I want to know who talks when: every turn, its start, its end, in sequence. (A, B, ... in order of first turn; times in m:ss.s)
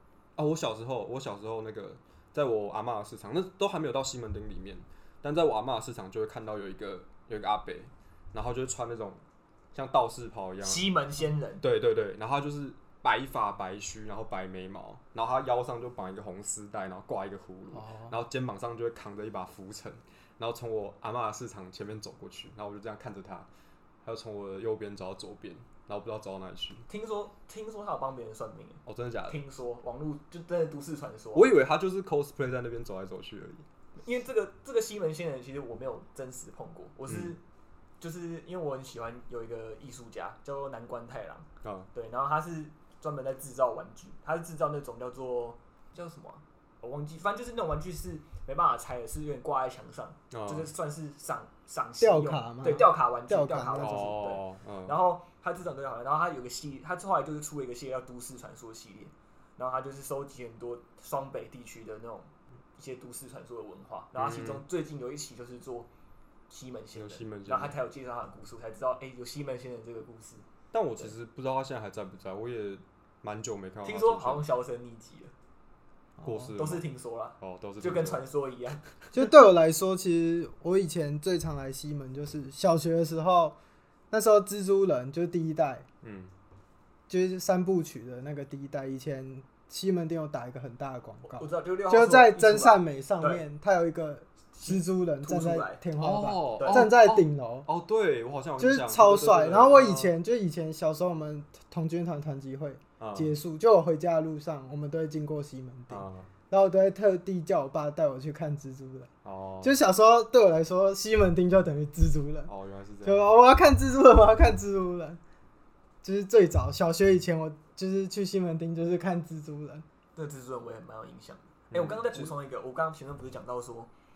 0:00.4-0:09.2 A
0:09.7-0:10.9 A
0:10.6-0:11.6 B
0:11.6-0:23.5 A
0:17.7-0:18.1 C
0:24.0-0:26.9 A
0:26.9-0:31.5 B
0:28.8-0:29.4 A
0:31.3-0:33.6 A
0:34.0-0:37.4 B
0:37.1-0:37.3 A
0:38.0-1:05.9 B
0:41.6-0:41.9 A
0:50.3-0:50.7 A
0:52.0-0:54.2 C
0:53.8-0:54.9 A
1:04.2-1:04.6 A
1:06.5-1:10.4 B
1:06.9-1:07.7 A
1:10.7-1:14.4 A
1:13.8-1:15.3 B
1:16.2-1:16.5 C
1:16.2-1:16.9 A
1:16.5-1:18.8 B
1:17.4-1:18.2 A
1:19.1-1:23.6 C
1:24.1-1:25.8 C
1:26.0-1:26.3 A
1:27.1-1:37.7 C
1:31.2-1:33.4 B
1:34.6-1:35.8 B
1:36.0-1:40.1 A
1:36.6-1:36.8 B
1:38.6-1:49.1 C
1:43.0-1:43.3 A
1:45.9-1:46.3 A
1:49.2-1:49.8 A
1:49.6-1:52.5 C
1:52.5-1:53.3 A
1:53.0-1:55.2 C
1:56.0-1:59.8 C
2:00.2-2:03.9 B
2:01.7-2:02.3 A